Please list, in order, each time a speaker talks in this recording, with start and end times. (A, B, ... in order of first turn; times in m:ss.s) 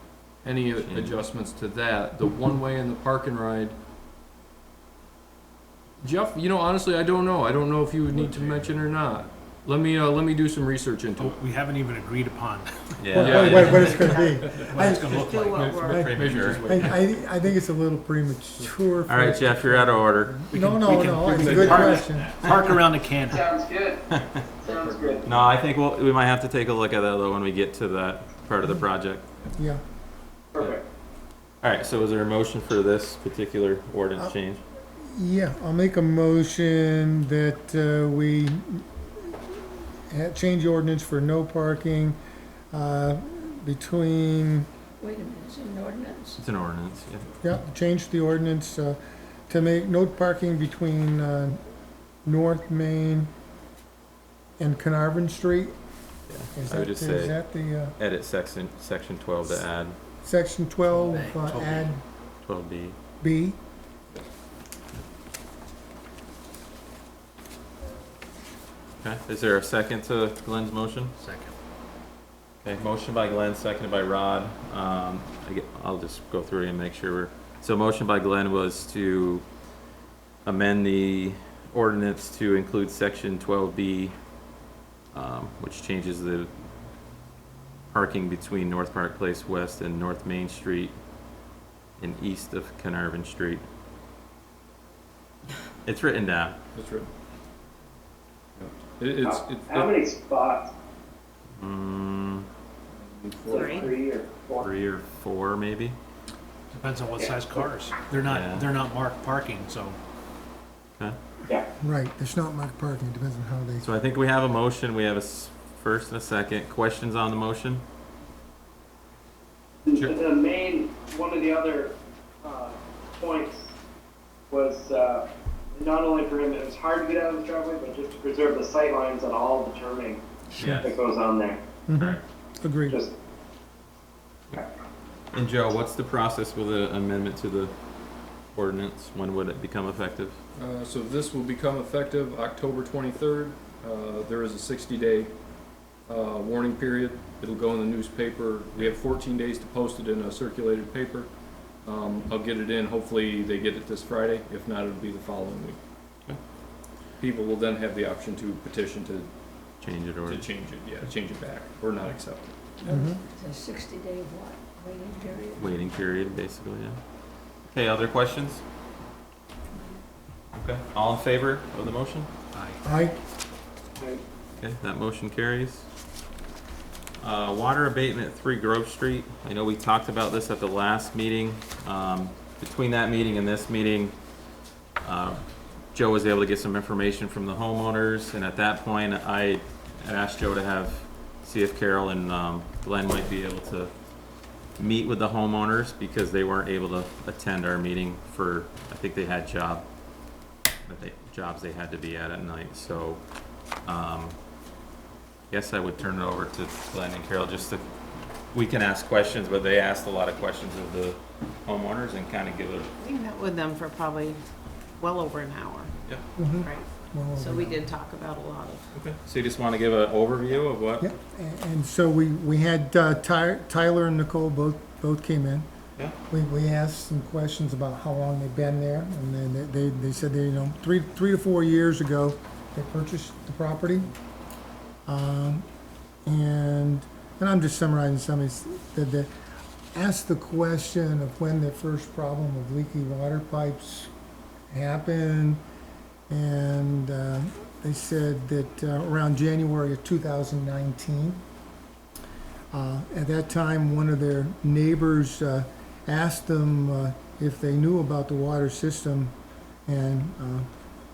0:00.4-0:03.7 A
0:00.8-0:01.2 B
0:06.0-0:11.4 A
0:11.2-0:16.1 C
0:13.0-0:14.1 B
0:13.1-0:15.2 D
0:13.2-0:14.3 A
0:14.8-0:16.1 E
0:15.1-0:17.0 A
0:15.8-0:16.9 B
0:16.6-0:22.4 D
0:19.1-0:20.5 B
0:20.5-0:23.5 C
0:21.3-0:22.0 A
0:23.3-0:24.0 F
0:24.1-0:24.5 B
0:24.6-0:25.2 F
0:24.6-0:25.5 A
0:25.2-0:29.2 B
0:29.5-0:29.8 D
0:30.5-0:30.8 F
0:31.6-0:34.6 B
0:35.1-0:39.4 D
0:40.1-0:42.2 D
0:42.7-0:44.7 D
0:45.0-0:46.4 G
0:46.4-0:47.3 B
0:47.4-0:51.6 D
0:52.2-0:53.3 D
0:54.6-0:55.7 D
0:56.3-0:57.4 B
0:56.5-0:58.0 D
0:58.0-1:00.0 B
1:00.2-1:02.0 D
1:00.9-1:01.9 C
1:02.4-1:03.0 B
1:03.2-1:03.6 D
1:09.0-1:11.1 B
1:11.2-1:11.5 C
1:12.6-1:19.4 B
1:20.4-1:24.1 B
1:25.1-1:26.5 B
1:27.9-1:30.9 B
1:32.0-1:33.6 B
1:35.8-1:36.6 B
1:36.7-1:37.1 A
1:38.6-1:39.9 A
1:39.2-1:40.7 F
1:41.6-1:42.5 B
1:42.9-1:44.0 A
1:43.4-1:44.7 F
1:43.5-1:43.9 E
1:44.6-1:46.0 B
1:46.7-1:50.0 C
1:47.2-1:47.6 F
1:48.3-1:48.7 B
1:51.8-1:53.9 D
1:53.8-1:57.8 B
1:59.9-2:03.7 F
2:04.5-2:05.2 F
2:05.8-2:10.2 F
2:10.6-2:11.0 B
2:10.7-2:11.6 F
2:11.9-2:13.0 D
2:12.0-2:12.2 B
2:15.3-2:17.7 B
2:18.5-2:20.4 B
2:20.6-2:25.3 A
2:26.0-2:31.3 A
2:31.8-2:35.8 A
2:37.2-2:39.3 A
2:39.8-2:40.4 B
2:40.2-2:42.6 A
2:42.8-2:46.2 G
2:42.8-2:43.2 D
2:45.6-2:47.0 B
2:47.7-2:48.6 B
2:50.5-2:52.3 B
2:52.8-2:53.2 D
2:54.6-2:55.9 B
2:57.2-3:04.1 B
3:05.0-3:05.4 B
3:05.9-3:13.9 B
3:14.8-3:19.8 B
3:20.8-3:23.2 B
3:23.8-3:24.4 B
3:25.5-3:27.8 B
3:28.5-3:32.9 B
3:33.0-3:34.4 E
3:35.0-3:35.9 E
3:36.4-3:37.9 D
3:36.6-3:36.8 E
3:37.4-3:38.9 E
3:38.9-3:41.1 B
3:41.0-3:45.7 D
3:46.3-3:54.1 D
3:55.1-3:55.6 D
3:56.2-3:59.3 D
3:59.9-4:04.1 D
4:04.7-4:05.6 D
4:06.3-4:11.4 D
4:12.7-4:19.3 D
4:19.9-4:20.7 D